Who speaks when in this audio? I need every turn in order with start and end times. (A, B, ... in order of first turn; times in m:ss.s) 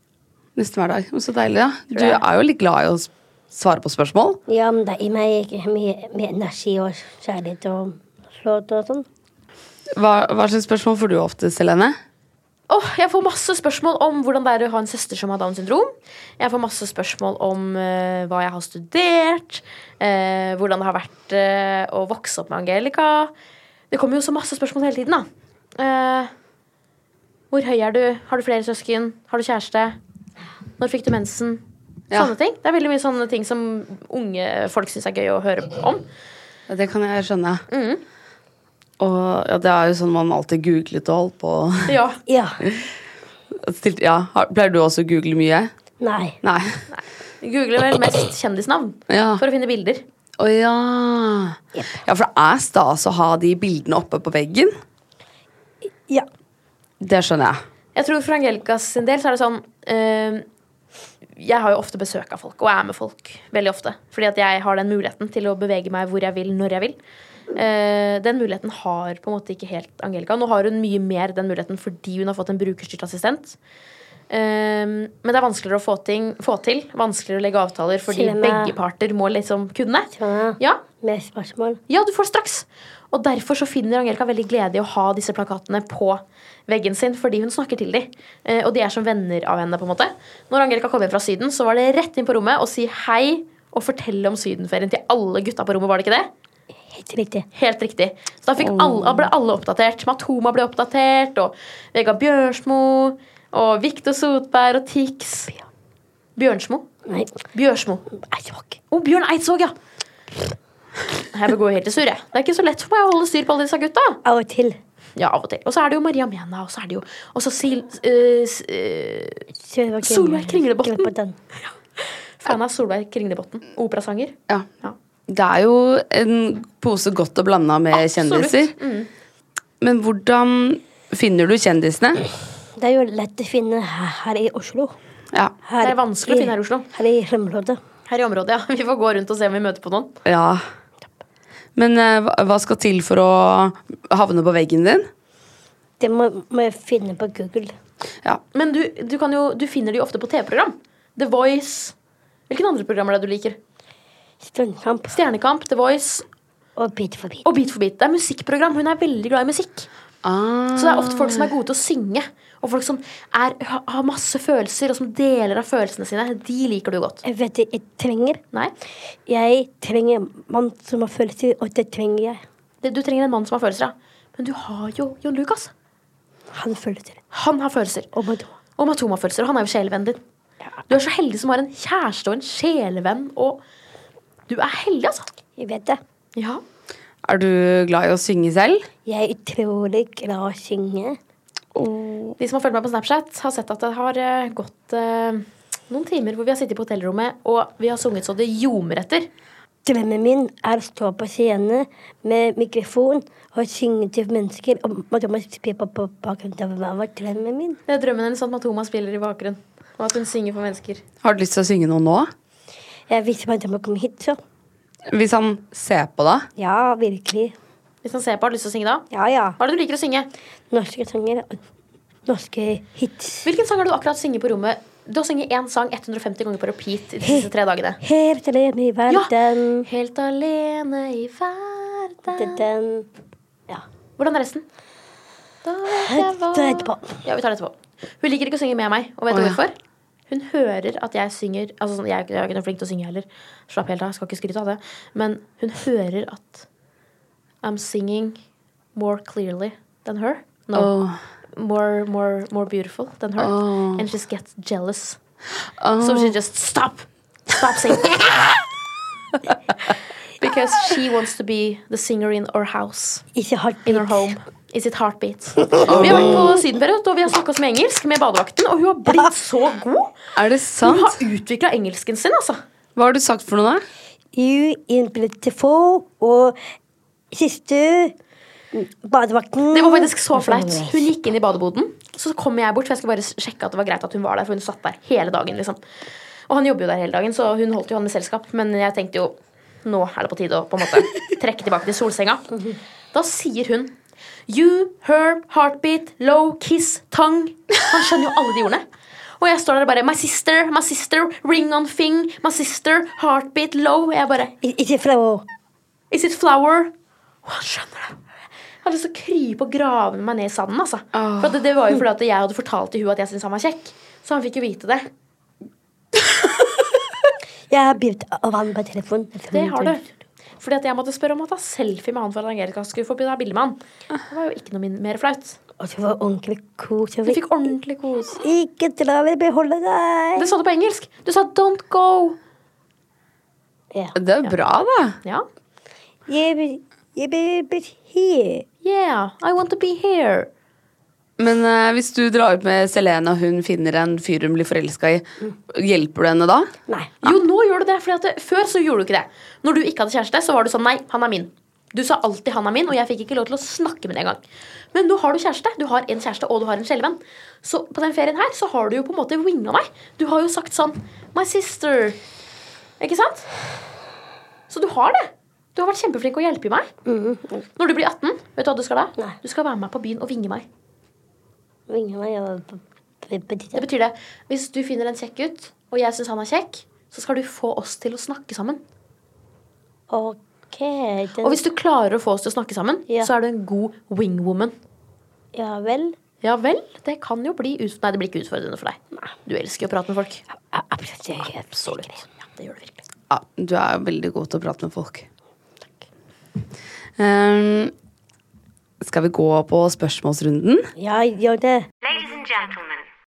0:00.6-0:04.4 A
0:01.9-0:02.2 B
0:04.5-0:09.0 C
0:10.0-0:12.0 A
0:12.7-0:23.3 B
0:23.9-0:26.3 B
0:27.5-0:29.9 B
0:30.8-0:36.0 B
0:36.7-0:37.6 A
0:37.7-0:38.0 B
0:39.0-0:41.9 A
0:41.9-0:42.2 B
0:42.2-0:42.6 C
0:43.6-0:45.7 A
0:46.0-0:46.4 C
0:46.4-0:46.8 A
0:46.9-0:50.0 B
0:49.1-0:49.4 A
0:50.4-0:54.7 A
0:51.7-0:52.0 C
0:55.8-0:56.3 C
0:57.0-0:57.6 A
0:58.0-1:00.4 B
1:01.4-1:07.0 B
1:07.5-1:13.6 B
1:14.3-1:20.8 B
1:18.1-1:18.7 C
1:20.1-1:21.8 C
1:21.9-1:36.3 B
1:36.9-1:37.4 C
1:37.5-1:45.5 B
1:38.6-1:39.2 A
1:46.4-1:46.9 B
1:47.1-1:47.4 C
1:47.5-1:48.0 B
1:48.1-1:48.8 C
1:48.9-1:49.7 B
1:51.3-1:54.2 B
1:54.2-1:54.8 C
1:55.2-1:59.4 B
1:59.5-2:01.4 C
2:00.0-2:01.1 B
2:02.4-2:05.0 B
2:05.3-2:08.7 A
2:07.9-2:09.1 B
2:09.8-2:12.2 A
2:12.8-2:15.0 C
2:15.6-2:17.8 C
2:15.8-2:16.9 B
2:18.1-2:20.1 B
2:20.2-2:20.6 A
2:21.8-2:25.1 A
2:26.0-2:27.7 C
2:28.5-2:31.9 B
2:32.5-2:33.6 B
2:34.4-2:35.2 C
2:35.1-2:36.2 B
2:36.8-2:37.5 C
2:37.4-2:39.9 B
2:40.2-2:41.5 A
2:40.7-2:47.2 B
2:47.2-2:48.4 C
2:49.2-2:52.4 C
2:52.8-2:55.7 B
2:56.5-2:57.2 C
2:57.3-2:58.1 B
2:58.1-2:58.5 C
2:58.8-3:00.2 B
3:00.9-3:03.6 B
3:04.5-3:05.3 B
3:05.6-3:06.0 C
3:06.4-3:06.6 B
3:07.2-3:08.8 A
3:09.0-3:11.2 C
3:11.7-3:12.4 A
3:12.4-3:19.3 B
3:19.8-3:27.8 C
3:27.9-3:31.0 B
3:31.2-3:32.3 A
3:33.1-3:34.4 C
3:35.1-3:36.5 A
3:36.6-3:37.5 C
3:38.0-3:39.0 B
3:39.1-3:39.6 C
3:39.6-3:40.3 B
3:40.7-3:41.6 C
3:42.2-3:43.4 C
3:43.4-3:48.0 B
3:48.0-3:49.9 C
3:49.8-3:52.6 B
3:52.3-3:53.1 C
3:54.2-3:54.6 B
3:55.6-3:59.7 B
3:56.0-3:57.1 C
3:59.3-3:59.6 A
4:00.3-4:06.6 B
4:07.6-4:08.4 B
4:09.0-4:10.9 B
4:10.7-4:11.2 A
4:11.6-4:15.2 B
4:13.4-4:14.0 A
4:15.8-4:16.3 A
4:16.0-4:18.5 B
4:20.4-4:23.2 B
4:23.3-4:24.3 C
4:23.8-4:30.1 B
4:25.9-4:26.4 A
4:30.4-4:31.1 A
4:30.8-4:32.6 B
4:33.0-4:33.8 A
4:34.3-4:36.6 C
4:37.3-4:38.1 C
4:38.7-4:41.1 C
4:39.7-4:45.8 B
4:46.5-4:52.4 B
4:52.5-4:52.8 C
4:53.1-4:53.9 B
4:54.5-4:58.8 B
4:59.4-5:04.5 B
5:04.6-5:05.4 C
5:06.1-5:06.9 B
5:07.4-5:08.2 B
5:08.8-5:15.1 B
5:11.2-5:11.5 A
5:17.7-5:20.0 C
5:19.5-5:20.0 B
5:20.6-5:23.8 B
5:24.3-5:25.6 B
5:25.8-5:27.4 C
5:27.2-5:28.4 B
5:28.4-5:30.5 C
5:30.4-5:32.4 B
5:34.2-5:35.2 A
5:36.3-5:38.6 C
5:38.8-5:40.5 B
5:41.4-5:46.7 A
5:47.2-5:54.4 B
5:54.9-6:02.2 B
6:03.0-6:03.5 B
6:04.7-6:06.9 B
6:07.0-6:07.6 C
6:07.8-6:10.6 B
6:11.9-6:13.8 C
6:13.7-6:18.8 B
6:20.1-6:21.6 C
6:21.4-6:24.7 B
6:25.5-6:26.2 C
6:26.4-6:30.4 B
6:30.6-6:32.2 C
6:31.4-6:33.0 B
6:33.3-6:35.3 A
6:37.2-6:37.9 A
6:39.0-6:40.9 A
6:41.0-6:41.9 C